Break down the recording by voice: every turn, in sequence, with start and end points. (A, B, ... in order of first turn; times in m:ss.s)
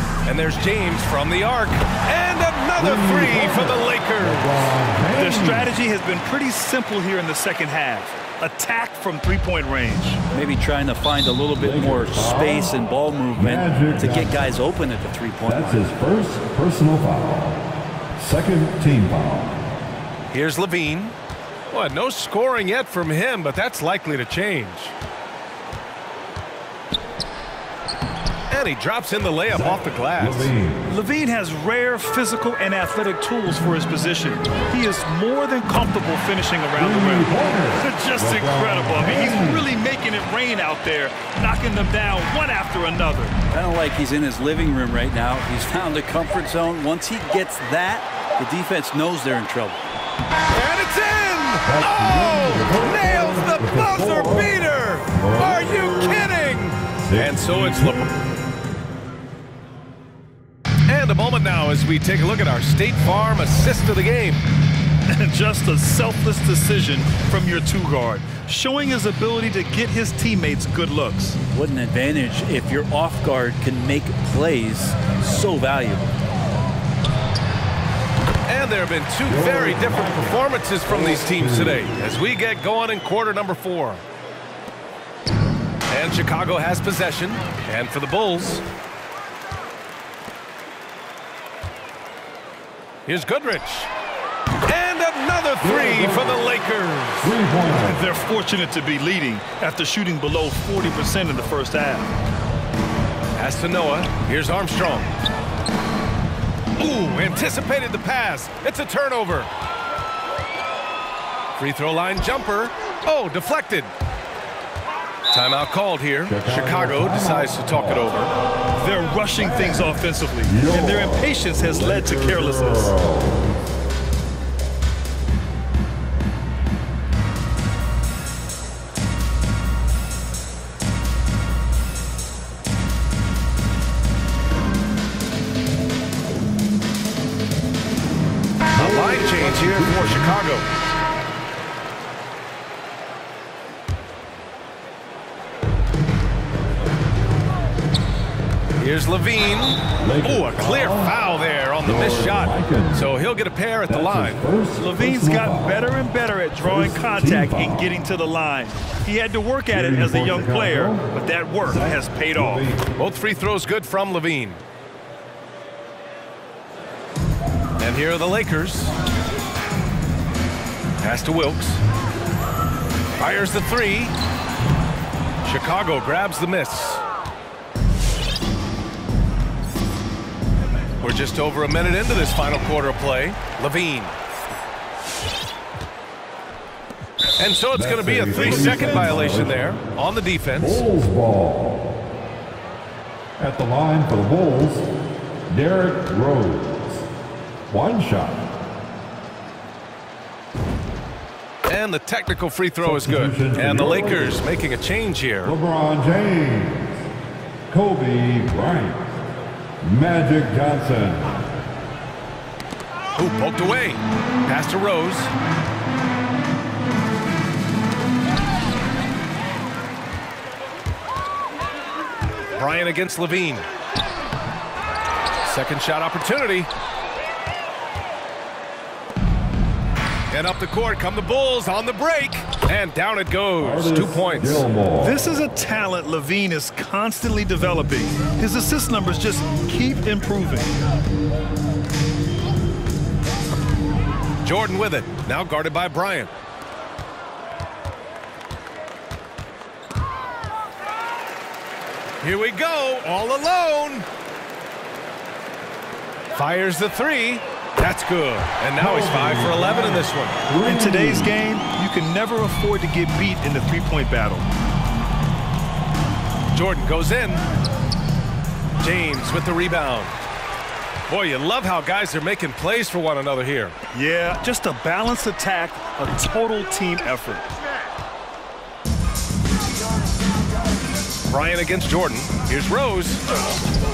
0:00.2-0:04.7 A
0:02.8-0:05.7 B
0:05.2-0:10.2 C
0:10.3-0:15.8 D
0:11.6-0:12.7 B
0:13.3-0:14.4 B
0:15.4-0:17.6 B
0:18.2-0:19.6 B
0:20.3-0:21.1 A
0:21.7-0:24.9 A
0:28.5-0:30.5 A
0:29.5-0:30.9 B
0:30.9-0:43.4 C
0:36.7-0:39.7 B
0:43.5-0:49.8 D
0:50.5-0:58.1 A
0:51.6-0:56.3 B
0:56.9-0:58.1 B
1:00.9-1:04.4 A
1:05.1-1:11.4 C
1:11.5-1:16.2 D
1:18.5-1:24.0 A
1:19.2-1:22.0 B
1:25.9-1:28.6 A
1:33.0-1:33.9 A
1:34.6-1:37.3 A
1:35.6-1:36.6 B
1:37.2-1:38.2 B
1:37.8-1:42.1 C
1:43.4-1:45.1 A
1:46.8-1:49.5 A
1:51.6-1:53.9 A
1:55.3-1:58.3 A
1:56.2-1:58.1 B
1:58.8-2:02.9 C
1:59.4-2:03.5 B
2:18.7-2:20.4 B
2:18.8-2:20.7 A
2:28.8-2:34.4 A
2:30.0-2:31.1 B
2:31.8-2:33.1 B
2:33.9-2:35.9 B
2:34.8-2:42.7 C
2:36.6-2:37.9 B
2:39.7-2:41.0 B
2:41.6-2:42.8 B
2:43.0-2:44.6 A
2:47.8-2:48.9 A
2:51.0-2:51.8 A
2:53.2-2:54.1 A
2:55.4-2:57.0 A
3:01.0-3:04.1 A
3:07.4-3:10.8 A
3:07.7-3:09.8 B
3:10.5-3:12.0 B
3:13.4-3:14.9 B
3:15.5-3:17.1 B
3:17.7-3:18.5 B
3:21.6-3:25.5 A
3:22.8-3:24.5 B
3:25.4-3:27.1 B
3:27.7-3:29.2 B
3:29.8-3:31.5 B
3:33.2-3:35.3 A
3:42.5-3:43.6 A
3:45.4-3:46.7 A
3:50.3-3:54.6 A
3:53.6-3:55.2 B
3:55.0-4:00.7 C
4:04.4-4:06.3 A
4:12.2-4:14.0 A
4:16.3-4:20.4 A
4:18.8-4:21.3 B
4:20.6-4:24.5 C
4:26.5-4:27.4 A
4:28.8-4:30.1 A
4:31.1-4:33.7 A
4:33.9-4:37.5 C
4:41.3-4:43.2 A